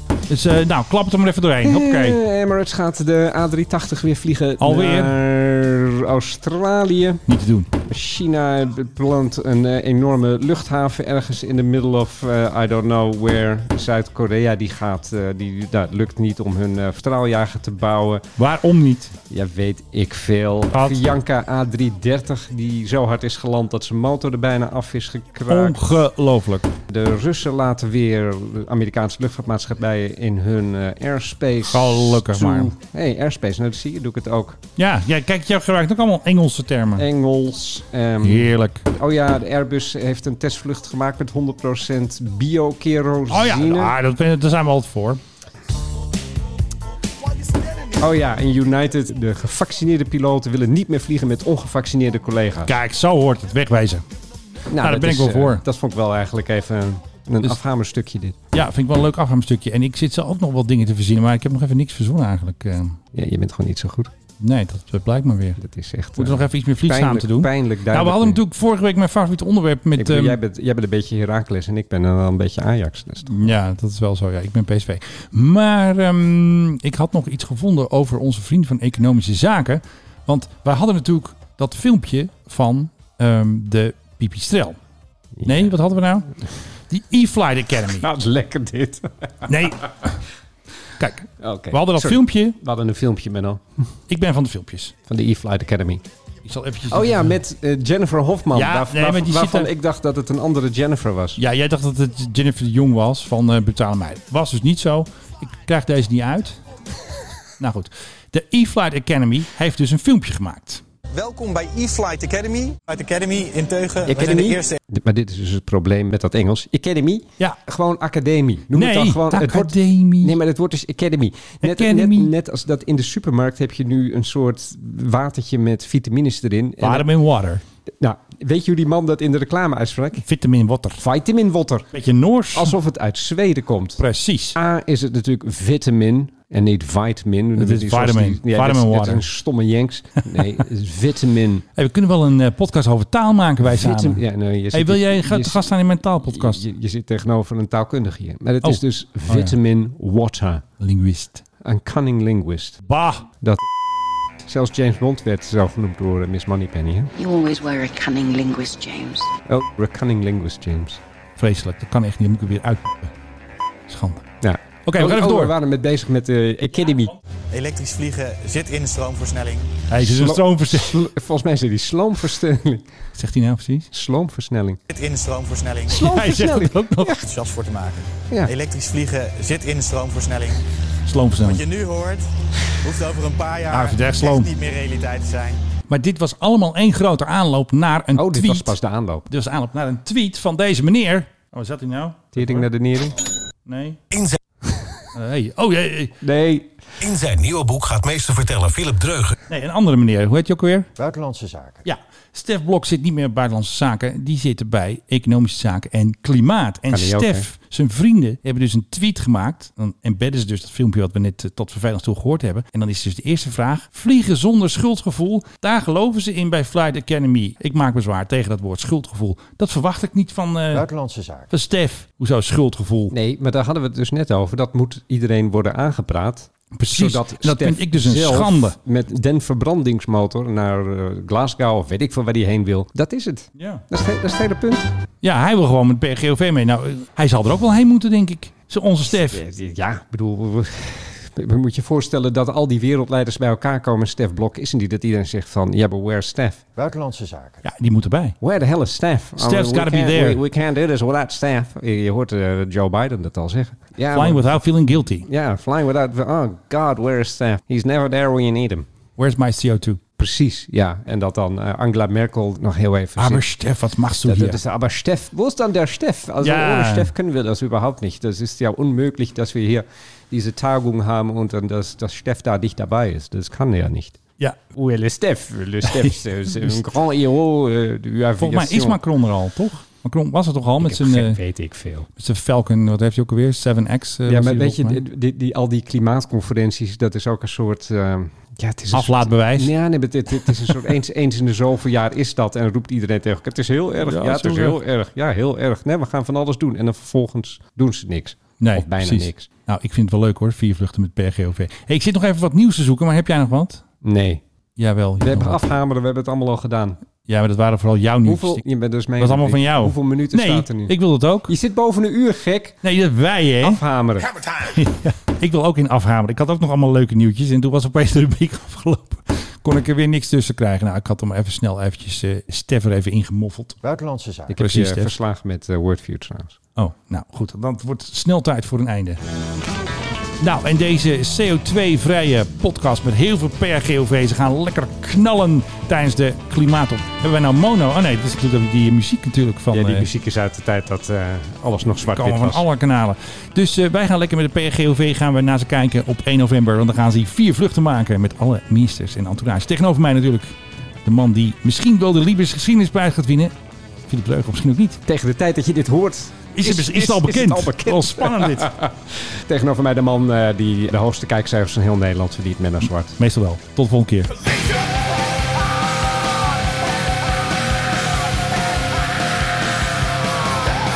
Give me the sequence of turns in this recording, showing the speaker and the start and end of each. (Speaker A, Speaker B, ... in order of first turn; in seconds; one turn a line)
Speaker A: 0.3-2.2
Speaker B: 1.6-7.2
Speaker A: 4.6-5.1
Speaker A: 7.3-7.7
Speaker B: 7.8-18.2
Speaker A: 18.4-19.1
Speaker B: 19.3-26.0
Speaker A: 20.7-21.2
Speaker A: 25.5-26.7
Speaker B: 26.9-34.6
Speaker A: 31.7-32.7
Speaker A: 34.8-37.0
Speaker B: 37.0-43.9
Speaker A: 38.2-38.8
Speaker A: 43.3-45.2
Speaker B: 48.0-52.7
Speaker A: 52.7-54.0
Speaker B: 54.7-58.4
Speaker A: 54.8-55.6
Speaker A: 58.5-63.0
Speaker B: 63.1-64.1
Speaker A: 64.4-65.6
Speaker B: 65.6-68.4
Speaker A: 66.2-70.4
Speaker B: 70.0-73.5
Speaker A: 73.2-84.8
Speaker B: 85.4-85.6
Speaker A: 85.4-86.3
Speaker A: 86.9-88.0
Speaker B: 87.9-89.5
Speaker A: 89.5-90.2
Speaker A: 91.0-92.6
Speaker B: 91.4-93.6
Speaker A: 94.1-94.9
Speaker B: 95.1-96.0
Speaker A: 96.4-97.4
Speaker B: 96.9-101.4
Speaker A: 98.5-99.7
Speaker A: 101.4-106.6
Speaker A: 107.6-110.8
Speaker C: 111.1-114.8
Speaker B: 114.0-127.1
Speaker A: 118.7-120.4
Speaker A: 121.6-122.3
Speaker A: 126.8-127.6
Speaker B: 128.0-130.2
Speaker A: 130.2-131.0
Speaker B: 131.0-131.9
Speaker A: 131.9-132.8
Speaker B: 132.5-134.0
Speaker A: 134.0-134.6
Speaker B: 134.5-141.6
Speaker A: 137.6-139.2
Speaker A: 141.8-146.7
Speaker B: 143.6-145.7
Speaker B: 146.2-150.6
Speaker A: 148.6-149.6
Speaker A: 150.8-151.4
Speaker B: 151.6-152.8
Speaker A: 152.8-153.2
Speaker B: 154.4-157.1
Speaker D: 157.2-159.3
Speaker B: 159.5-161.0
Speaker A: 161.4-163.1
Speaker A: 163.9-164.3
Speaker B: 164.4-167.2
Speaker A: 164.8-165.6
Speaker C: 167.5-169.7
Speaker A: 169.9-171.1
Speaker B: 170.0-172.9
Speaker A: 173.1-173.9
Speaker B: 173.9-174.8
Speaker C: 174.9-176.0
Speaker B: 175.9-177.3
Speaker A: 175.9-177.2
Speaker C: 177.2-180.6
Speaker A: 181.0-181.6
Speaker C: 181.4-182.3
Speaker C: 182.8-185.6
Speaker A: 183.7-184.5
Speaker A: 185.9-188.8
Speaker B: 188.1-189.3
Speaker A: 189.3-192.7
Speaker B: 192.3-193.2
Speaker A: 193.7-194.0
Speaker A: 195.1-196.2
Speaker B: 196.2-196.7
Speaker E: 197.0-199.3
Speaker A: 199.5-200.9
Speaker F: 201.0-201.8
Speaker A: 201.8-220.8
Speaker B: 206.9-207.5
Speaker F: 220.7-221.5
Speaker A: 221.5-223.1
Speaker B: 223.1-234.9
Speaker A: 226.7-228.8
Speaker A: 233.6-233.8
Speaker A: 235.2-239.4
Speaker B: 239.2-246.6
Speaker F: 246.8-247.6
Speaker A: 247.6-248.4
Speaker B: 248.4-254.6
Speaker A: 249.4-250.4
Speaker A: 254.1-255.3
Speaker B: 255.2-258.9
Speaker A: 259.2-260.0
Speaker B: 260.2-263.4
Speaker A: 263.2-264.6
Speaker B: 264.2-274.2
Speaker A: 266.4-267.1
Speaker A: 274.4-274.8
Speaker B: 274.7-279.0
Speaker A: 275.8-276.8
Speaker A: 278.4-281.4
Speaker B: 280.8-282.1
Speaker A: 282.1-285.0
Speaker B: 284.3-299.5
Speaker A: 288.9-289.7
Speaker A: 290.4-290.8
Speaker A: 294.0-294.8
Speaker A: 298.6-303.9
Speaker B: 304.0-304.4
Speaker A: 304.8-305.6
Speaker B: 305.2-307.0
Speaker A: 307.2-308.6
Speaker B: 308.2-310.9
Speaker A: 309.2-311.5
Speaker B: 311.4-312.8
Speaker A: 312.8-313.8
Speaker B: 313.6-314.4
Speaker A: 314.6-323.8
Speaker F: 323.8-324.6
Speaker B: 324.5-326.6
Speaker A: 324.6-325.1
Speaker A: 326.8-329.2
Speaker A: 330.4-340.1
Speaker B: 339.7-342.6
Speaker A: 342.0-353.5
Speaker A: 354.1-355.0
Speaker B: 355.1-363.2
Speaker A: 356.5-358.7
Speaker A: 363.2-364.3